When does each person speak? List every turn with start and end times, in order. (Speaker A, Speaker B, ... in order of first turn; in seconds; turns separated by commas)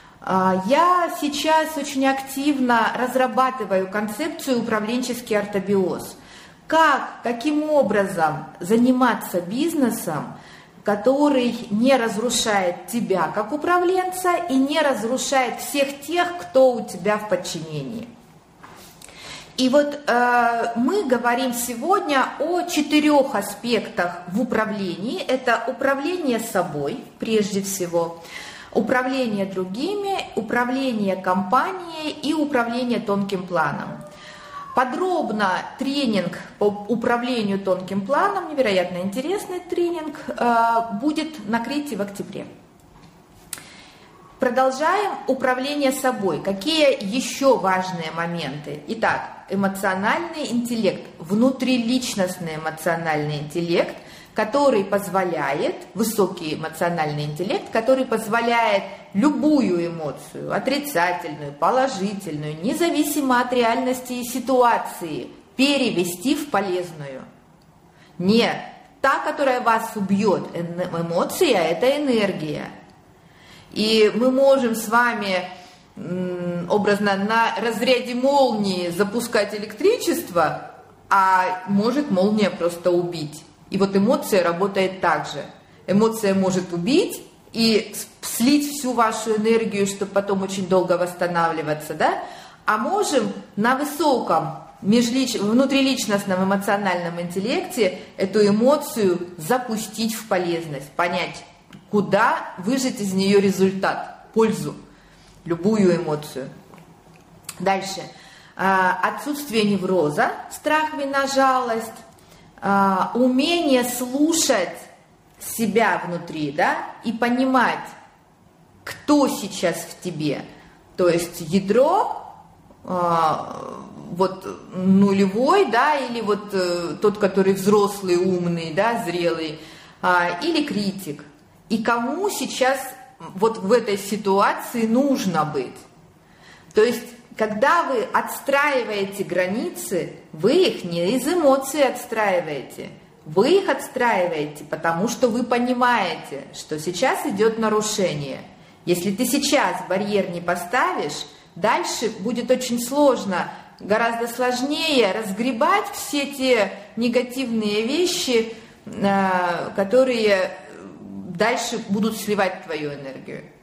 Speaker A: 0.2-6.2, Speaker A: 6.7-10.3, Speaker A: 10.8-18.1, Speaker A: 19.6-28.2, Speaker A: 28.7-34.0, Speaker A: 34.7-42.5, Speaker A: 44.4-67.2, Speaker A: 68.2-72.7, Speaker A: 73.7-104.8, Speaker A: 105.4-106.5, Speaker A: 107.6-112.0, Speaker A: 112.6-114.8, Speaker A: 115.4-117.9, Speaker A: 118.8-120.4, Speaker A: 121.0-122.2, Speaker A: 122.8-135.8, Speaker A: 136.7-163.5